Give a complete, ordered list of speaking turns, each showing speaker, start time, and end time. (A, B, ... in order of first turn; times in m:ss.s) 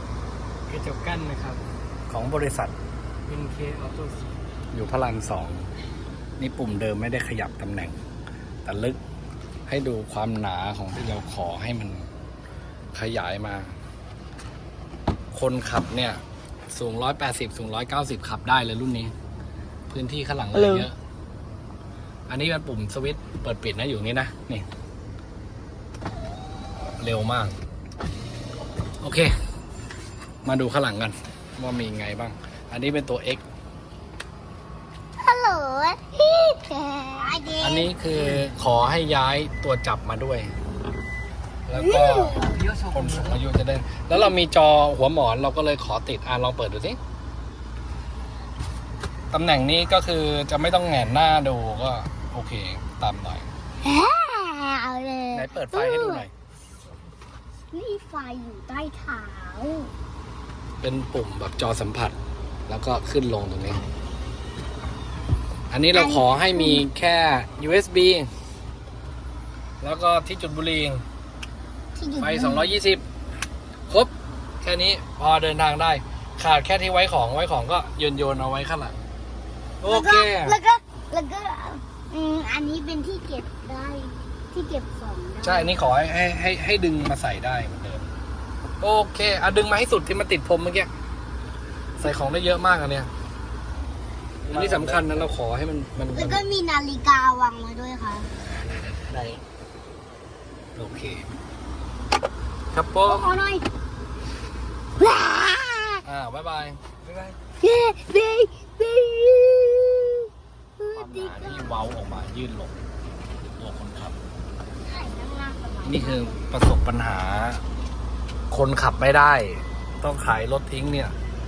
0:00.7-0:01.6 A
0:02.1-0:02.7 B
0:03.3-0:04.2 A
0:04.7-0:05.7 B
0:06.4-0:08.0 B
0:08.6-0:09.0 B
0:09.7-0:12.1 B
0:12.9-0:13.7 B
0:15.3-0:19.1 B
0:19.9-0:21.0 B
0:22.3-0:24.6 B
0:27.0-0:27.5 B
0:29.0-0:29.3 B
0:30.4-0:33.4 B
0:35.2-0:37.9 C
0:37.6-0:40.5 B
0:41.7-0:47.0 B
0:41.8-0:42.5 C
0:42.5-0:43.4 A
0:49.3-0:53.5 B
0:53.8-0:56.2 C
0:55.3-0:56.3 B
0:57.7-0:59.9 C
1:00.8-1:02.1 B
1:02.7-1:03.8 B
1:05.7-1:08.3 B
1:05.9-1:06.8 C
1:09.8-1:11.0 B
1:11.9-1:12.7 C
1:12.2-1:13.0 B
1:14.6-1:19.0 B
1:19.8-1:20.6 B
1:19.8-1:25.7 C
1:25.4-1:28.1 B
1:28.8-1:30.9 B
1:32.0-1:33.1 B
1:34.5-1:36.5 B
1:34.5-1:34.8 A
1:36.1-1:38.3 C
1:38.6-1:39.4 B
1:40.8-1:41.2 B
1:42.7-1:43.3 B
1:43.0-1:43.6 C
1:45.0-1:46.0 C
1:46.0-1:47.3 B
1:47.6-1:50.3 C
1:50.8-1:51.9 C
1:50.9-1:52.8 B
1:53.6-1:54.2 B
1:54.8-1:56.4 C
1:55.8-1:57.6 B
1:58.5-2:01.1 B